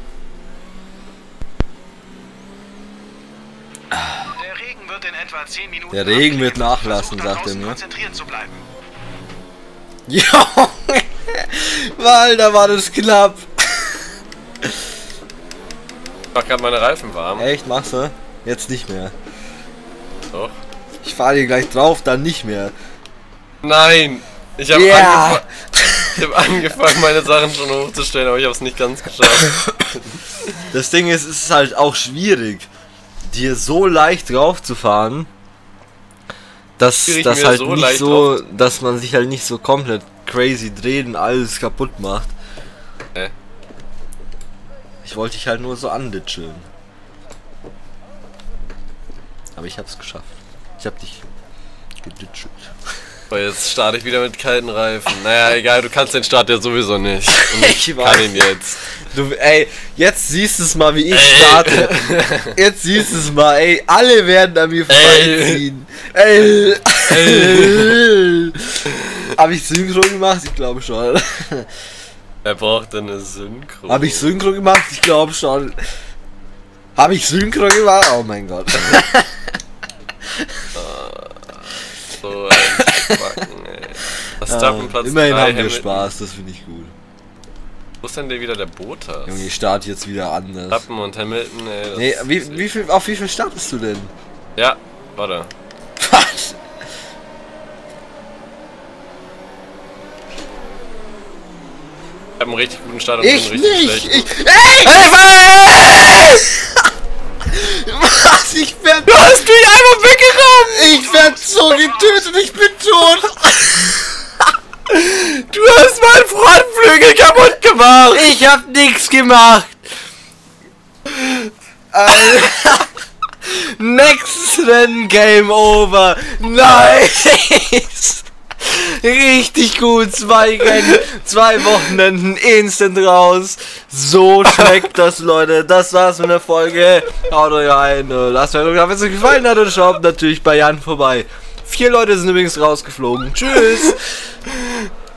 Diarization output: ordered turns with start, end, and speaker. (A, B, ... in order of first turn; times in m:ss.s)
0:03.9-0:04.3 A
0:04.4-0:08.6 B
0:05.9-0:07.8 A
0:10.1-0:14.0 A
0:16.3-0:17.5 C
0:17.4-0:19.1 A
0:21.0-0:22.7 A
0:23.6-0:30.5 C
0:24.7-0:26.8 A
0:30.7-0:32.7 A
0:33.3-0:35.3 A
0:36.8-0:42.3 A
0:37.0-0:38.3 C
0:45.0-0:46.7 A
0:49.6-0:51.2 A
0:52.0-0:52.8 A
0:53.3-0:58.8 C
0:57.3-1:11.7 A
1:01.1-1:02.5 C
1:04.9-1:05.6 C
1:07.1-1:08.0 C
1:08.9-1:09.3 C
1:12.4-1:14.3 C
1:13.9-1:15.8 A
1:17.0-1:19.4 A
1:20.7-1:26.1 C
1:22.7-1:23.1 A
1:24.4-1:26.9 A
1:28.0-1:29.5 C
1:29.2-1:30.8 A
1:30.7-1:32.7 C
1:31.9-1:34.1 A
1:34.6-1:35.5 C
1:36.0-1:36.6 A
1:42.4-1:44.3 C
1:43.2-1:46.7 A
1:44.8-1:46.3 C
1:47.5-1:49.3 A
1:49.0-1:51.0 C
1:50.6-1:54.2 A
1:54.9-1:58.3 C
1:58.1-1:59.8 A
2:01.9-2:02.9 A
2:03.4-2:24.2 A
2:14.4-2:14.8 C
2:23.6-2:23.9 C
2:24.5-2:24.9 C